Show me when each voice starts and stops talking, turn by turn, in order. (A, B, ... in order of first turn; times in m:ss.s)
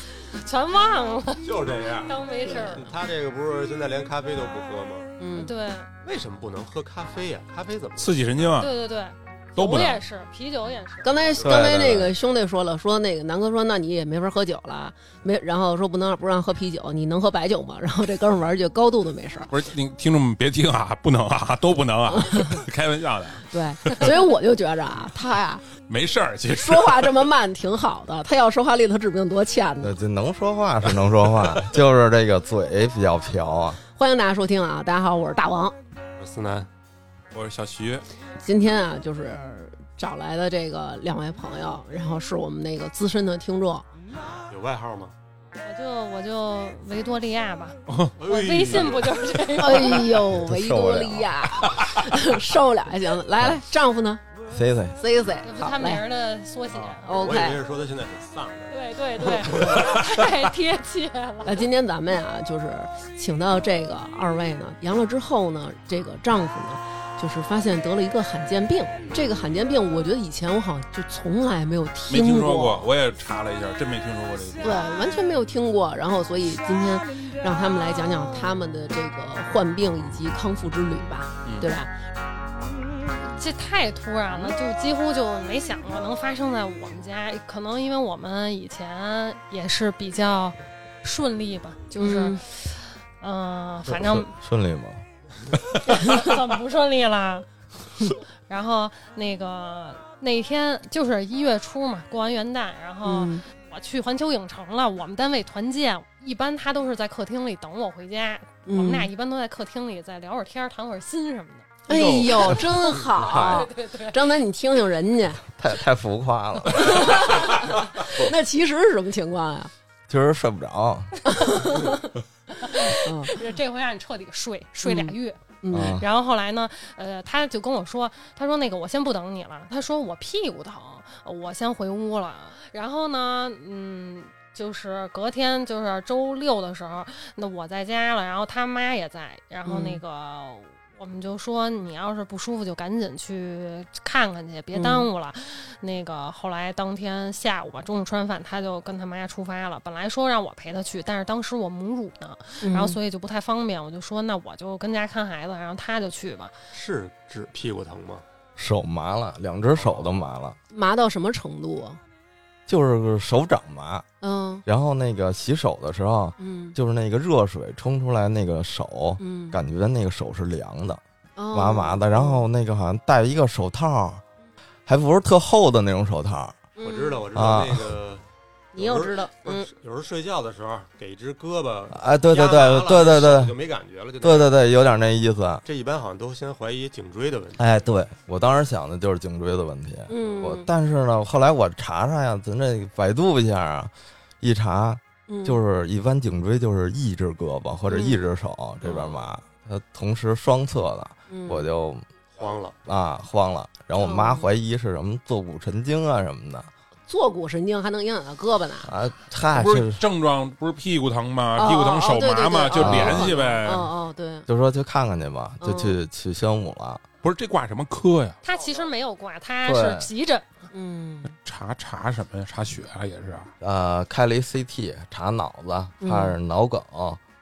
0:00.2-0:02.9 A
0:01.4-0:05.1 B
0:02.5-0:02.8 C
0:05.2-0:05.5 C
0:05.3-0:05.9 A
0:06.0-0:08.6 B
0:08.0-0:08.7 D
0:08.6-0:11.2 A
0:09.6-0:10.0 D
0:11.0-0:19.5 C
0:11.4-0:12.1 E
0:19.5-0:24.3 D
0:22.1-0:22.6 C
0:23.5-0:25.7 C
0:25.8-0:27.3 D
0:26.5-0:29.9 C
0:29.8-0:33.8 E
0:34.0-0:35.8 C
0:36.2-0:36.7 B
0:37.3-0:38.0 D
0:38.4-0:43.9 C
0:44.5-0:45.2 B
0:45.6-0:50.1 A
0:47.9-0:48.1 D
0:48.2-0:49.5 B
0:49.6-0:54.2 C
0:50.4-0:51.3 E
0:54.5-0:55.0 E
0:55.0-0:56.0 C
0:55.4-0:57.4 A
0:56.8-1:00.1 B
0:57.1-0:57.6 C
0:58.7-1:01.7 A
1:01.5-1:12.9 C
1:09.0-1:09.5 B
1:12.1-1:14.8 D
1:14.6-1:21.9 C
1:21.4-1:21.7 D
1:23.2-1:34.3 A
1:32.0-1:32.4 C
1:33.9-1:35.0 E
1:35.8-1:37.5 A
1:38.0-1:51.9 A
1:43.0-1:43.4 C
1:48.7-1:49.1 C
1:51.9-1:55.4 C
1:51.9-1:52.4 D
1:53.2-1:54.3 A
1:53.2-1:53.7 E
1:55.5-1:57.4 E
1:56.7-1:59.7 C
2:00.1-2:01.1 E
2:01.3-2:03.4 C
2:02.6-2:36.5 A
2:04.8-2:06.0 C
2:05.7-2:06.1 E
2:19.7-2:20.0 C
2:24.7-2:25.1 C
2:32.6-2:33.0 C
2:36.7-2:38.2 B
2:38.6-2:40.6 E
2:40.7-2:42.0 C
2:42.7-2:44.1 E
2:44.2-2:44.6 C
2:44.7-2:51.0 E
2:46.4-2:46.8 C
2:49.2-2:49.6 C
2:51.4-2:52.4 C
2:51.5-2:54.2 E
2:54.9-2:56.6 E
2:56.8-2:57.3 C
2:56.8-2:58.2 B
2:57.3-2:57.9 E
2:58.7-2:59.7 C
2:58.8-3:04.6 B
3:01.9-3:03.6 E
3:04.2-3:05.6 E
3:05.6-3:07.6 B
3:07.6-3:22.0 E
3:10.1-3:10.7 C
3:15.3-3:15.6 C
3:17.9-3:18.3 C
3:18.8-3:19.2 C
3:21.3-3:21.7 C
3:22.4-3:22.8 B
3:22.9-3:26.7 E
3:24.0-3:24.5 C
3:27.1-3:28.9 C
3:28.8-3:30.0 E
3:29.6-3:33.9 D
3:31.6-3:34.5 C
3:32.7-3:33.4 E
3:34.5-3:37.0 E
3:35.6-3:36.0 C
3:37.2-3:38.4 D
3:38.4-3:40.6 A
3:39.6-3:40.1 E
3:40.7-3:41.4 C
3:41.4-3:43.5 D
3:43.6-3:47.2 E
3:46.0-3:46.4 C